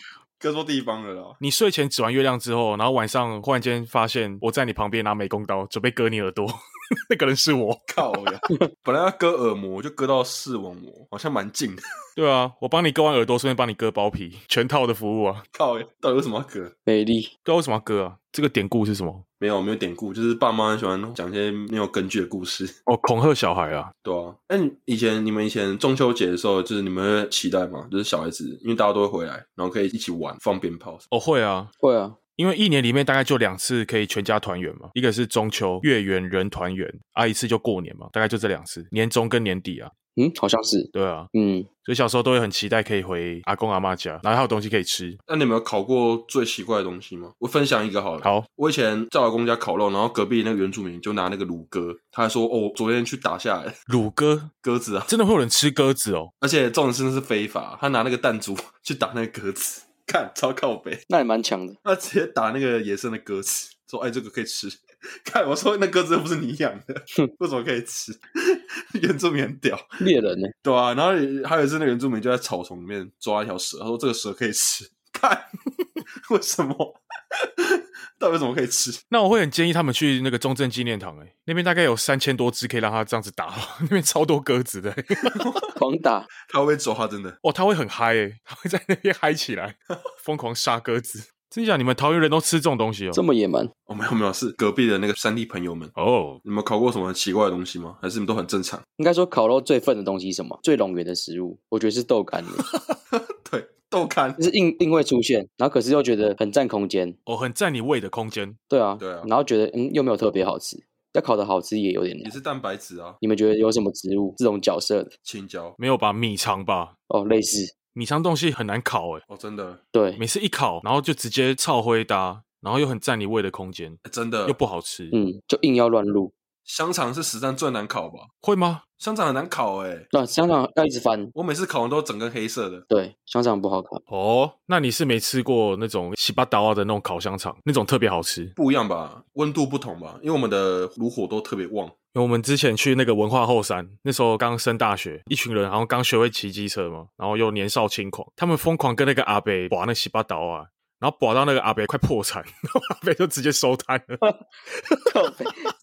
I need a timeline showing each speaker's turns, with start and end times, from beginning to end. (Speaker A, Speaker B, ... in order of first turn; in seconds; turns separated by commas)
Speaker A: 0.4-1.4, Speaker B: 1.4-8.2, Speaker A: 7.9-11.8, Speaker B: 12.2-15.4, Speaker A: 15.5-16.7, Speaker C: 16.9-17.3, Speaker B: 17.4-19.2, Speaker A: 19.4-22.7, Speaker B: 22.9-23.9, Speaker A: 24.0-31.0, Speaker B: 31.1-31.7, Speaker C: 31.8-32.2, Speaker B: 32.4-39.9, Speaker C: 40.1-41.7, Speaker B: 40.9-41.3, Speaker B: 41.8-45.2, Speaker A: 45.3-53.8, Speaker B: 48.2-48.5, Speaker B: 53.9-54.5, Speaker A: 54.6-55.1, Speaker B: 55.1-56.3, Speaker A: 56.4-61.0, Speaker C: 61.1-61.8, Speaker A: 61.8-69.9, Speaker C: 70.0-70.5, Speaker A: 70.6-75.5, Speaker A: 76.2-79.0, Speaker B: 79.1-85.4, Speaker A: 85.3-85.7, Speaker C: 85.7-86.3, Speaker A: 86.5-87.4, Speaker B: 87.4-93.2, Speaker C: 93.1-93.7, Speaker A: 93.9-95.9, Speaker B: 96.0-96.4, Speaker A: 96.4-98.8, Speaker C: 99.0-102.6, Speaker B: 102.7-102.9, Speaker A: 103.1-104.4, Speaker C: 104.4-107.2, Speaker B: 107.3-108.6, Speaker C: 108.7-112.3, Speaker A: 109.0-109.3, Speaker A: 112.2-113.2, Speaker C: 113.2-115.1, Speaker A: 115.2-115.8, Speaker B: 115.8-116.9, Speaker C: 117.1-117.7, Speaker B: 117.9-119.2, Speaker A: 119.3-119.8, Speaker C: 119.9-120.2, Speaker B: 120.2-125.1, Speaker A: 124.0-124.6, Speaker C: 125.1-126.3, Speaker A: 126.7-128.3, Speaker B: 128.4-128.8, Speaker A: 129.0-130.1, Speaker C: 130.1-131.3, Speaker A: 131.3-132.8, Speaker C: 132.9-134.0, Speaker B: 134.1-138.5, Speaker A: 138.6-141.9, Speaker B: 142.1-154.2, Speaker C: 155.1-155.7